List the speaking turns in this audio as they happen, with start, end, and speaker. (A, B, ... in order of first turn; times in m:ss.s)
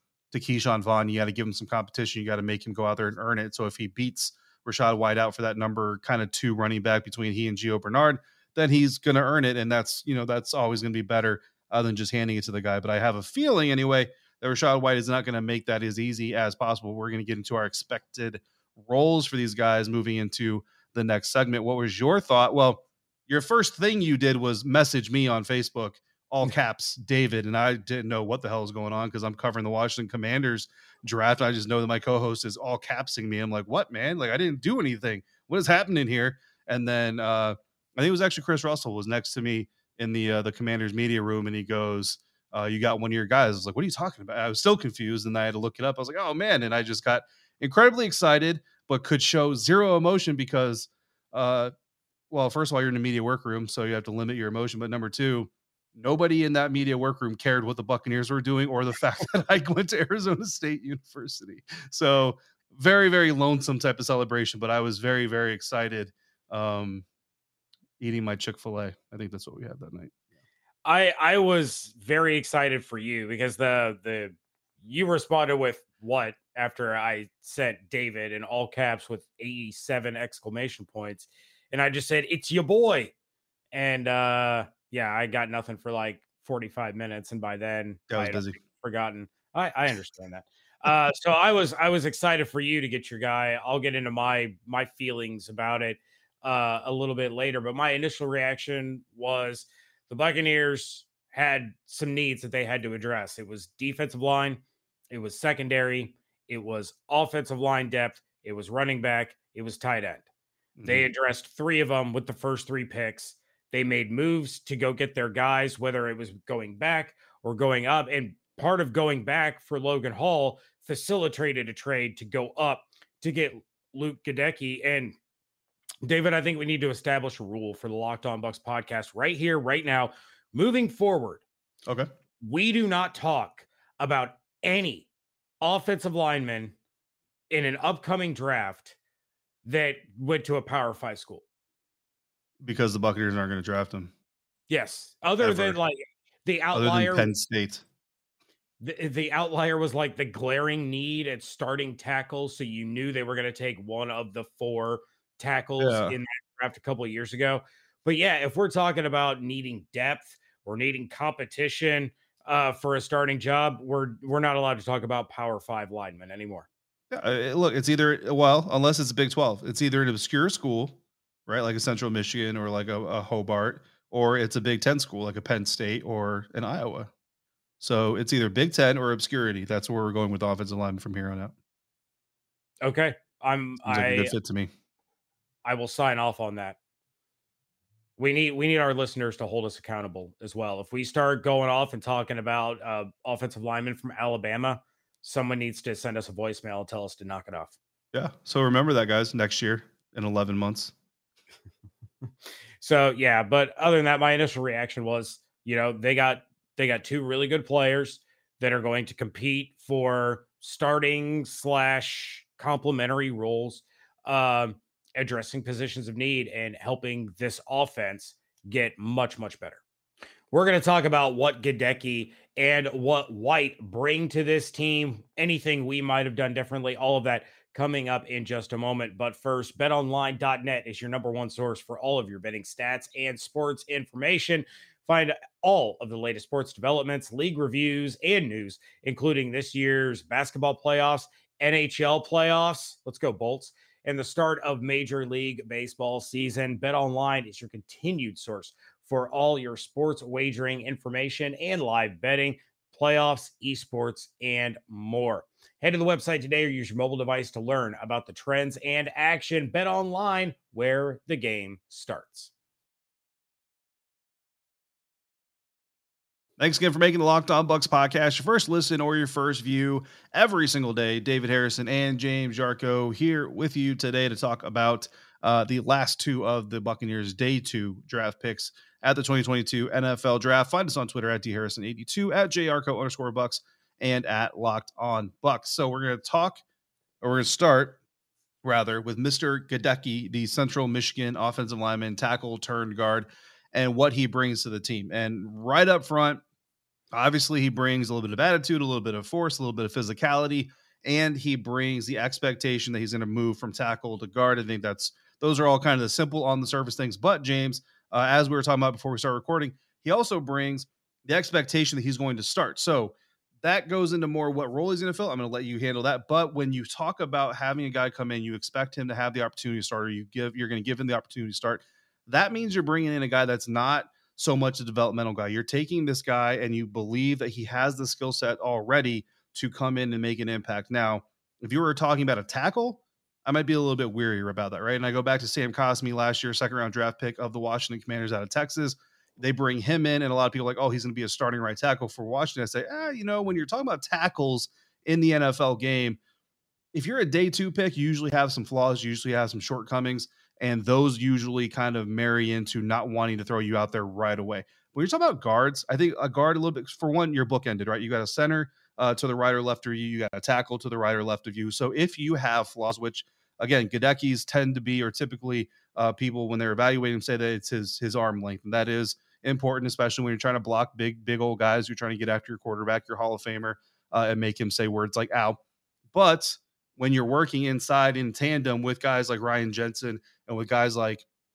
0:00.3-0:51.7 A
0:52.3-1:07.0 A
1:08.0-1:10.2 A
1:10.8-1:23.1 B
1:23.7-1:50.3 B
1:28.1-1:28.6 A
1:50.8-1:51.1 A
1:50.8-2:05.2 B
2:06.0-2:11.4 B
2:12.4-2:15.1 B
2:15.6-2:16.7 B
2:17.5-2:19.0 B
2:19.6-2:21.4 B
2:22.6-2:24.1 A
2:24.7-2:27.3 B
2:25.4-2:25.8 A
2:26.7-2:27.8 A
2:28.8-2:46.7 B
2:35.8-2:36.1 A
2:47.1-2:57.1 A
2:57.8-3:01.5 A
3:02.8-3:04.3 B
3:03.8-3:04.7 A
3:05.6-3:06.8 B
3:08.2-3:17.8 B
3:18.1-3:20.9 A
3:22.8-3:39.8 B
3:40.5-4:22.5 B
4:26.6-4:46.6 A
4:47.2-4:48.0 A
4:48.6-4:56.4 A
4:57.1-5:46.2 A
5:46.9-6:15.6 A
6:16.1-6:21.2 A